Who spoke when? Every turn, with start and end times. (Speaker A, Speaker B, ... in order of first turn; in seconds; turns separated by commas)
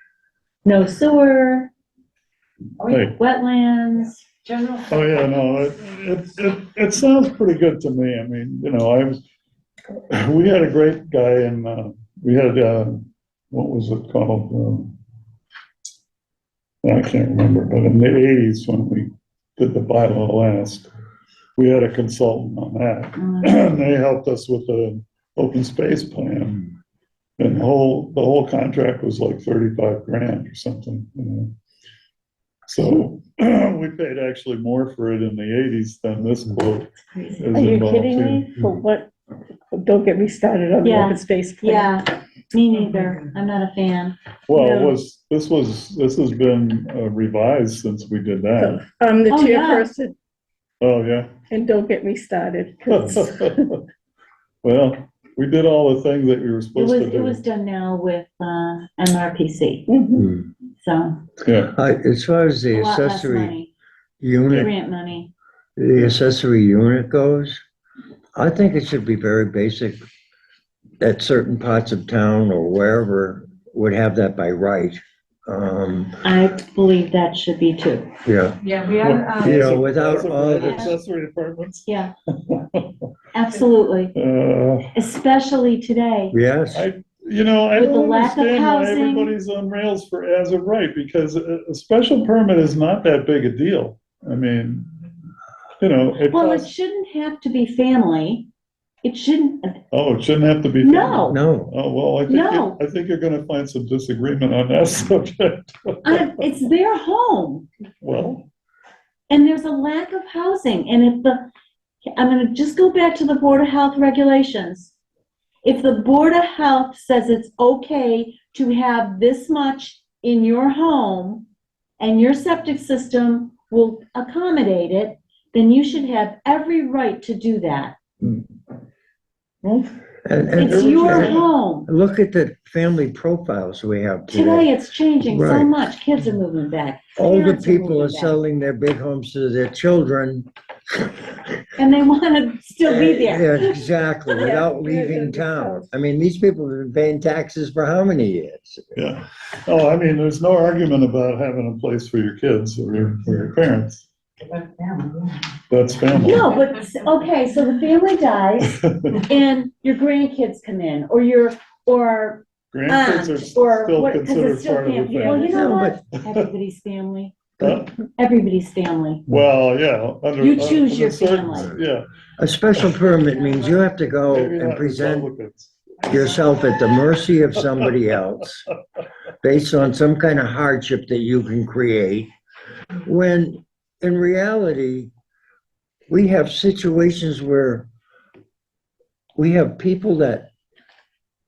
Speaker A: 0.6-1.7, Speaker B: 2.8-3.1, Speaker C: 2.9-3.1, Speaker A: 3.1-4.2, Speaker B: 4.4-5.2, Speaker C: 4.9-9.2, Speaker C: 10.1-14.9, Speaker C: 16.8-20.9, Speaker C: 21.6-26.7, Speaker A: 23.2-23.6, Speaker C: 27.4-31.5, Speaker C: 32.7-38.5, Speaker A: 37.1-37.5, Speaker D: 37.5-39.1, Speaker D: 39.7-42.0, Speaker A: 40.8-44.2, Speaker B: 42.8-43.2, Speaker C: 44.5-48.8, Speaker D: 44.5-45.0, Speaker D: 48.6-50.1, Speaker A: 49.3-49.9, Speaker C: 50.8-51.3, Speaker D: 51.5-53.7, Speaker C: 52.9-53.8, Speaker C: 54.6-57.4, Speaker A: 56.8-59.9, Speaker D: 59.9-60.3, Speaker E: 60.2-60.5, Speaker A: 60.8-61.2, Speaker C: 61.4-61.7, Speaker E: 61.7-63.5, Speaker A: 62.7-63.7, Speaker E: 64.2-64.7, Speaker A: 64.5-65.3, Speaker E: 65.8-67.6, Speaker E: 68.4-70.0, Speaker E: 71.0-76.2, Speaker A: 76.2-78.1, Speaker E: 78.2-78.6, Speaker B: 78.6-79.8, Speaker C: 79.0-82.9, Speaker E: 79.4-81.0, Speaker A: 80.6-81.0, Speaker A: 81.9-82.1, Speaker A: 83.3-84.2, Speaker C: 84.2-84.9, Speaker A: 84.9-86.3, Speaker E: 86.3-86.9, Speaker C: 86.7-94.9, Speaker A: 87.8-89.3, Speaker C: 95.8-96.7, Speaker A: 96.3-98.5, Speaker A: 99.0-99.8, Speaker C: 99.9-106.3, Speaker A: 100.8-101.4, Speaker E: 101.3-101.7, Speaker A: 102.3-102.8, Speaker A: 106.0-107.7, Speaker C: 108.0-108.5, Speaker A: 109.3-111.5, Speaker A: 112.2-114.9, Speaker A: 115.6-121.5, Speaker A: 122.0-128.0, Speaker C: 129.6-130.0, Speaker E: 130.2-134.7, Speaker A: 130.5-131.9, Speaker C: 130.6-131.5, Speaker A: 134.3-138.4, Speaker E: 135.2-135.8, Speaker E: 137.2-141.1, Speaker A: 141.8-143.8, Speaker E: 142.8-148.9, Speaker D: 144.3-145.9, Speaker C: 148.9-154.1, Speaker B: 154.4-155.4, Speaker C: 155.7-156.5, Speaker A: 156.2-169.2, Speaker C: 158.8-159.2, Speaker C: 162.7-165.8, Speaker E: 165.2-166.0, Speaker C: 167.6-167.9, Speaker C: 169.3-172.0, Speaker A: 170.4-171.8, Speaker E: 172.4-175.3, Speaker C: 172.8-173.1, Speaker C: 174.3-176.1, Speaker E: 176.1-178.6, Speaker E: 179.4-182.3, Speaker E: 183.0-185.1, Speaker E: 186.1-187.9, Speaker E: 189.4-190.5